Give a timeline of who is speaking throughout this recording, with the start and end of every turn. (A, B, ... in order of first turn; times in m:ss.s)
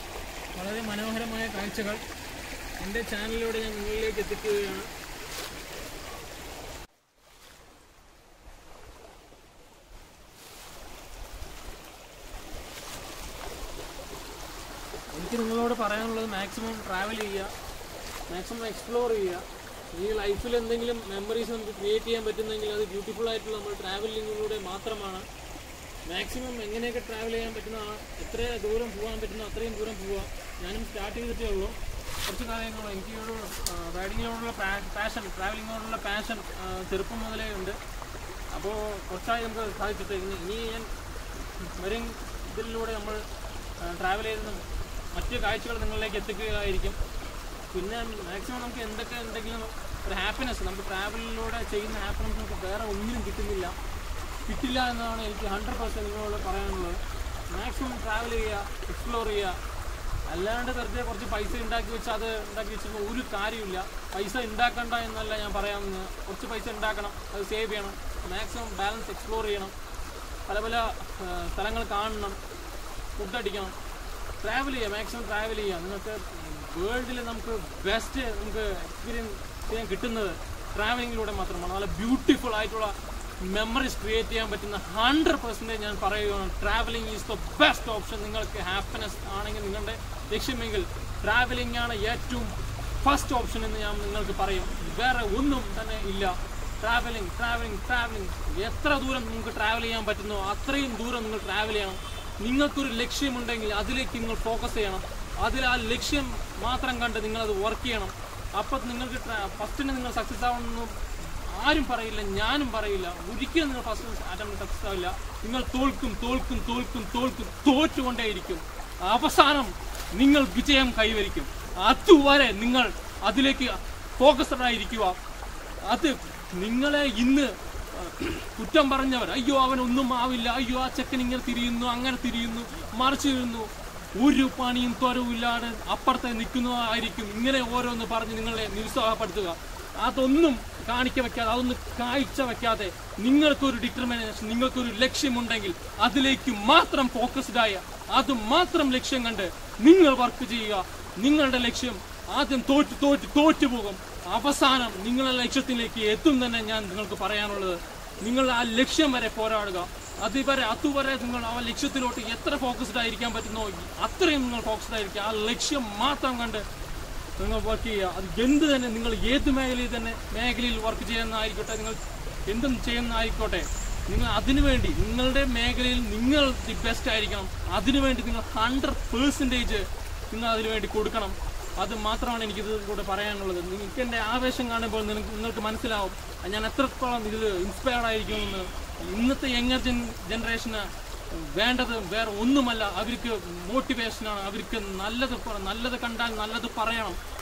0:00.5-0:02.0 A
0:02.8-0:04.9 A
0:15.1-0:17.5 A
0:18.3-0:25.3 A
0:26.0-0:37.8 A
0:38.5-0:40.9 A
0:41.7-0:43.2 A
0:43.8-0:47.0 A
0:47.7-0:53.8 A
0:54.4-0:59.6 A
1:00.3-1:09.7 A
1:10.4-1:12.4 A
1:13.2-1:13.7 A
1:14.4-2:05.2 A
2:05.8-2:46.6 A
2:47.4-3:17.2 A